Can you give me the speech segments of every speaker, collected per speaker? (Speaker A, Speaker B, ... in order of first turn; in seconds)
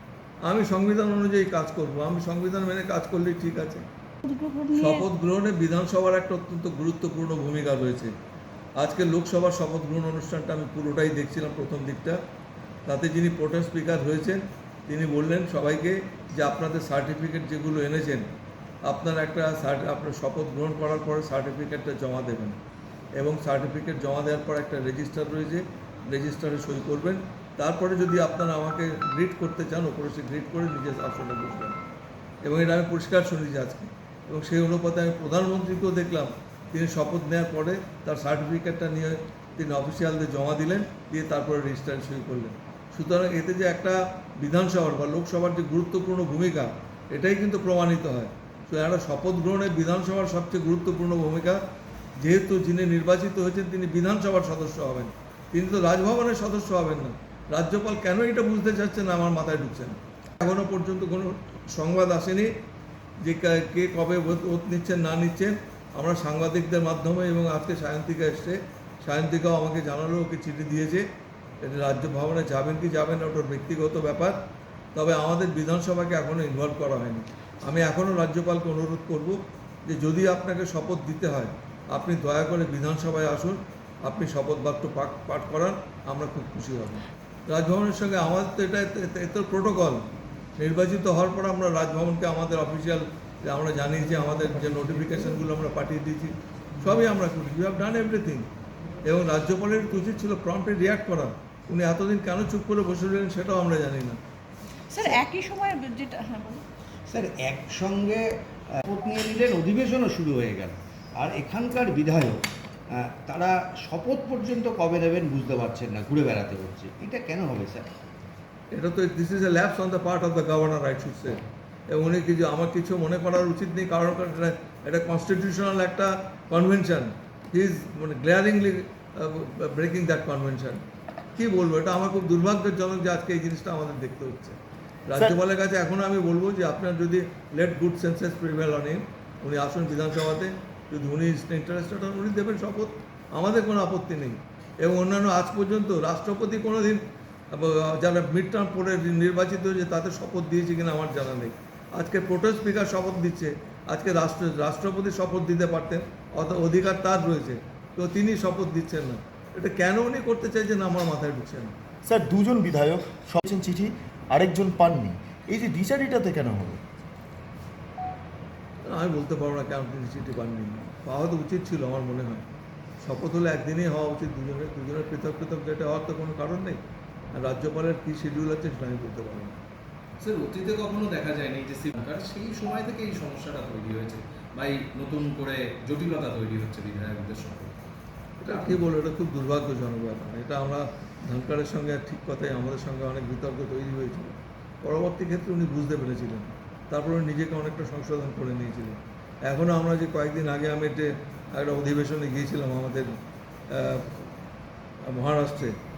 Speaker A: 0.4-3.8, 4.7-8.1, 8.8-12.2, 12.8-18.3, 18.9-22.6, 23.2-31.8, 32.4-51.6, 52.2-62.5, 63.2-71.0, 71.6-74.4, 74.9-90.0, 90.6-98.5, 99.0-104.2, 118.7-121.4, 121.9-130.8, 131.3-161.7, 168.8-172.4, 173.0-176.8, 177.3-179.6, 188.4-203.2, 203.7-204.2, 205.1-205.7
Speaker B: 4.2-5.0, 104.9-106.6
Speaker C: 107.1-117.9
Speaker D: 162.0-166.8
Speaker E: 180.2-187.7